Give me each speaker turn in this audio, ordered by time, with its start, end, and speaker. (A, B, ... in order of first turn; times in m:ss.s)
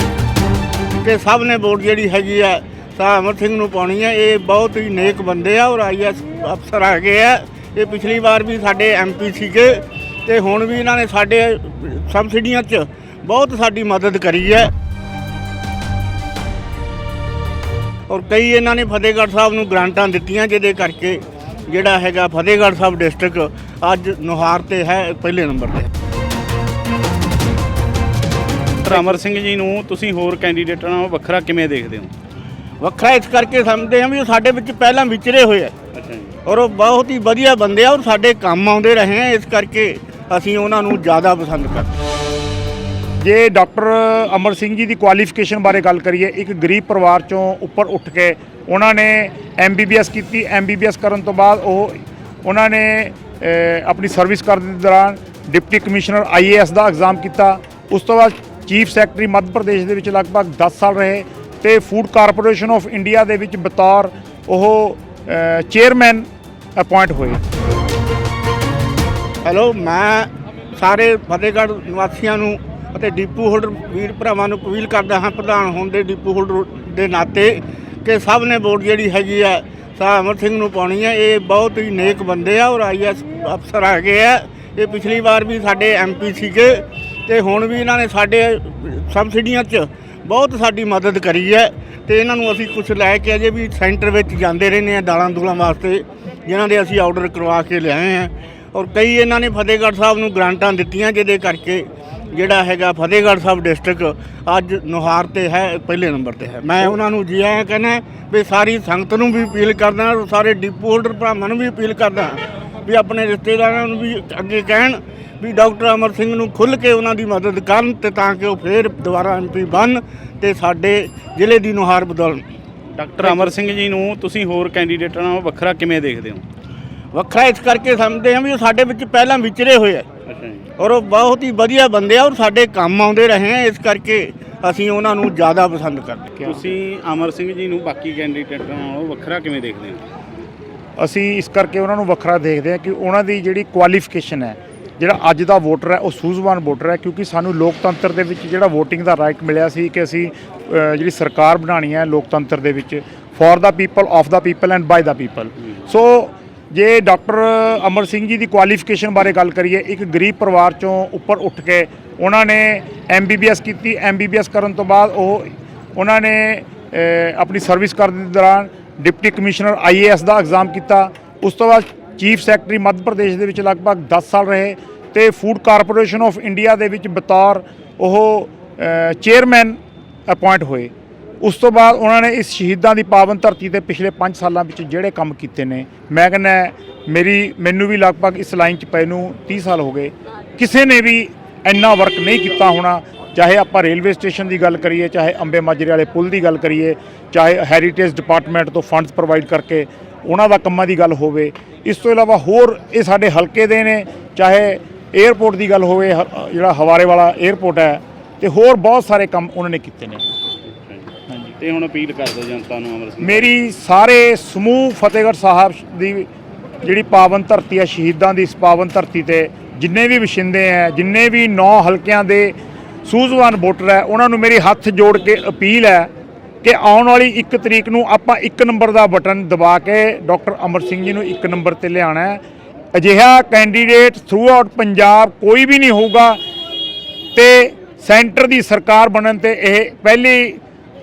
0:01.0-0:14.7 A
0:18.1-0:25.9 A
0:28.8-0:32.1 B
0:28.9-0:29.2 A
0:32.8-0:35.8 A
0:35.9-0:36.4 B
0:36.4-0:42.0 A
0:43.2-1:07.4 C
1:09.4-2:02.4 A
2:02.9-2:06.4 B
2:03.2-2:03.5 A
2:07.1-2:10.1 A
2:10.2-2:10.7 B
2:10.8-2:16.5 A
2:16.4-2:20.0 B
2:21.0-3:30.2 C
3:30.7-3:33.5 B
3:33.2-3:36.3 C
3:36.8-3:46.1 C
3:46.6-3:52.4 C
3:52.9-3:56.4 C
3:57.4-4:00.6 C